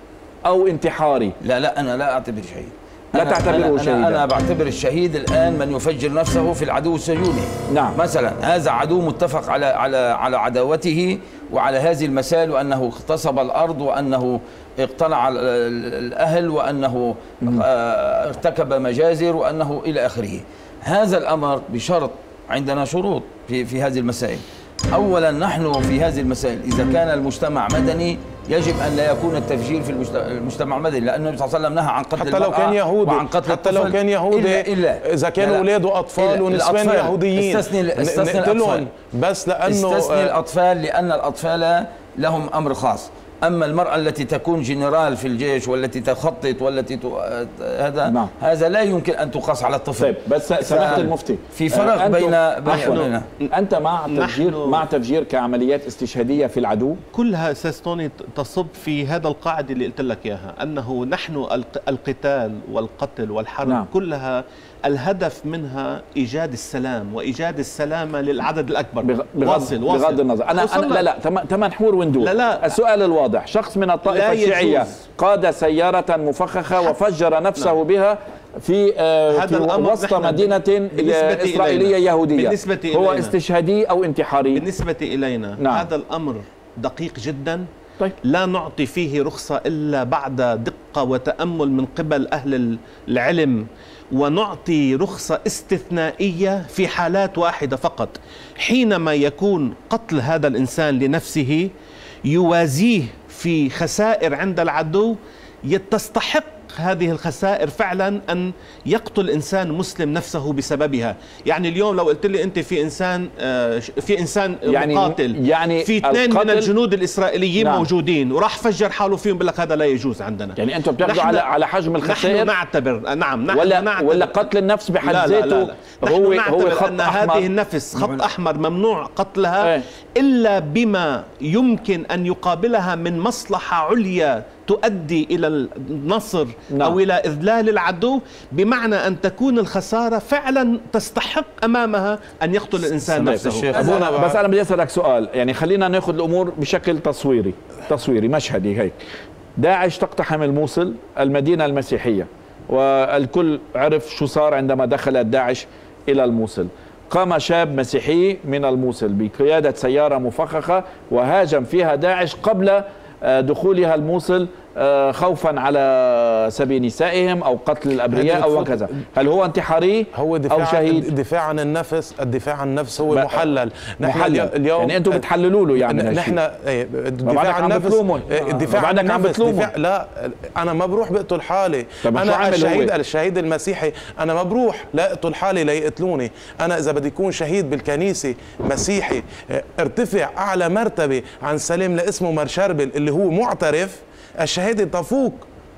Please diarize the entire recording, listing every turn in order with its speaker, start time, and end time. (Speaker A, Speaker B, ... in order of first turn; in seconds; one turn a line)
Speaker A: 0.5-1.4
Speaker B: 1.4-38.8
Speaker A: 3.1-4.2
Speaker A: 7.7-8.0
Speaker C: 32.1-40.3
Speaker B: 39.6-53.3
Speaker A: 48.0-48.3
Speaker A: 50.0-57.0
Speaker D: 52.7-53.5
Speaker D: 54.1-54.8
Speaker D: 57.1-71.1
Speaker A: 69.0-84.7
Speaker D: 72.2-72.7
Speaker D: 74.0-74.9
Speaker D: 79.3-83.3
Speaker D: 84.5-87.7
Speaker A: 85.6-85.9
Speaker D: 88.2-101.7
Speaker D: 102.3-121.5
Speaker A: 114.7-116.7
Speaker A: 117.6-117.9
Speaker A: 120.6-122.5
Speaker D: 122.0-124.5
Speaker A: 123.5-127.5
Speaker D: 125.0-144.0
Speaker B: 127.9-128.2
Speaker A: 129.6-129.9
Speaker A: 136.7-137.0
Speaker B: 143.0-144.0
Speaker A: 143.2-149.0
Speaker C: 143.7-144.4
Speaker A: 149.6-171.1
Speaker C: 168.1-168.9
Speaker C: 170.1-195.4
Speaker A: 173.1-173.4
Speaker A: 174.0-176.4
Speaker A: 177.2-179.7
Speaker A: 182.0-182.9